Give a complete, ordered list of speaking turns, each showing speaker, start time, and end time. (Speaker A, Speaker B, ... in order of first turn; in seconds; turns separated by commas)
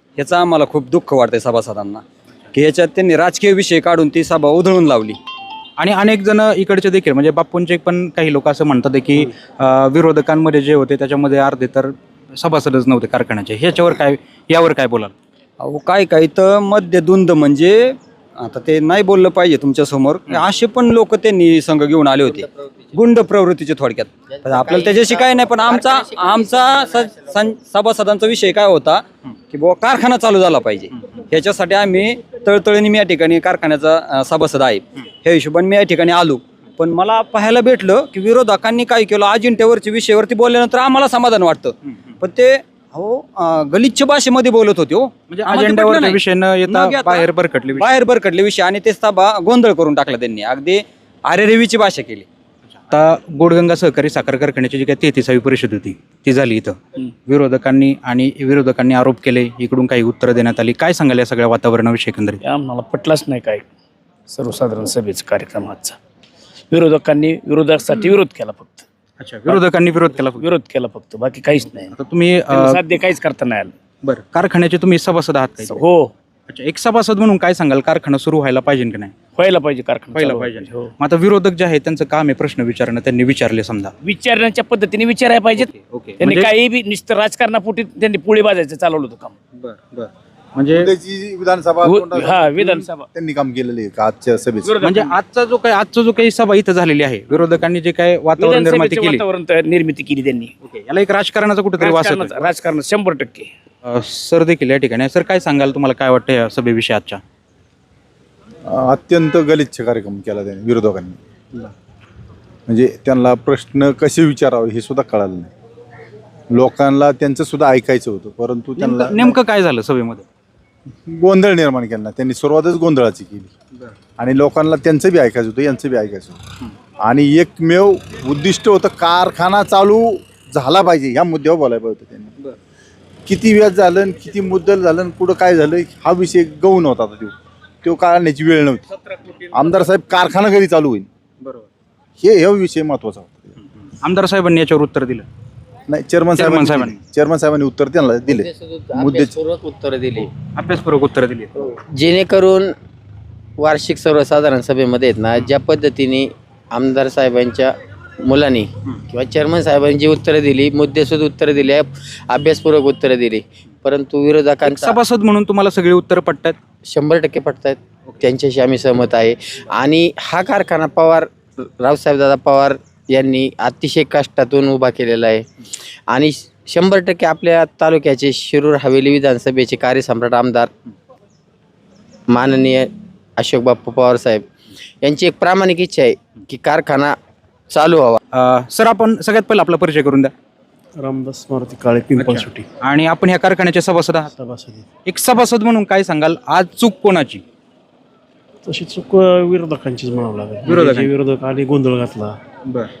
Speaker A: 0.2-2.0, Speaker A: 2.5-5.2, Speaker B: 5.8-15.1, Speaker A: 15.6-52.3, Speaker C: 22.3-22.9, Speaker C: 24.3-27.3, Speaker B: 45.3-47.9, Speaker B: 52.9-62.4, Speaker D: 62.4-63.6, Speaker D: 64.3-66.0, Speaker D: 66.7-68.8, Speaker B: 69.2-70.5, Speaker D: 70.4-71.9, Speaker B: 71.9-72.8, Speaker D: 72.5-73.7, Speaker B: 74.0-75.8, Speaker D: 75.6-76.1, Speaker B: 76.5-79.1, Speaker D: 79.4-80.9, Speaker B: 80.1-83.9, Speaker D: 84.0-89.3, Speaker B: 85.6-86.5, Speaker B: 89.6-90.9, Speaker E: 90.7-94.7, Speaker D: 91.8-93.0, Speaker D: 94.7-95.1, Speaker B: 94.8-99.2, Speaker D: 98.4-100.5, Speaker B: 100.6-102.4, Speaker D: 101.8-103.5, Speaker B: 103.8-107.2, Speaker E: 108.7-111.2, Speaker E: 112.7-115.5, Speaker E: 116.5-119.4, Speaker B: 118.8-120.2, Speaker E: 120.9-123.5, Speaker E: 124.2-126.4, Speaker E: 127.0-132.3, Speaker E: 133.2-138.9, Speaker E: 139.4-141.1, Speaker E: 142.2-143.5, Speaker B: 144.0-145.2, Speaker E: 145.9-149.3, Speaker B: 146.4-147.0, Speaker C: 148.3-150.3, Speaker B: 150.6-151.5, Speaker C: 151.9-152.7, Speaker C: 153.6-157.7, Speaker C: 158.2-165.0, Speaker B: 164.6-166.6, Speaker C: 166.9-175.4, Speaker C: 176.1-180.7, Speaker C: 182.3-184.4, Speaker C: 185.0-187.2, Speaker C: 187.7-188.2, Speaker B: 188.3-190.3, Speaker F: 191.0-192.6, Speaker B: 192.2-194.3, Speaker F: 194.3-194.8, Speaker B: 195.1-197.4, Speaker F: 198.6-202.3, Speaker B: 200.6-201.1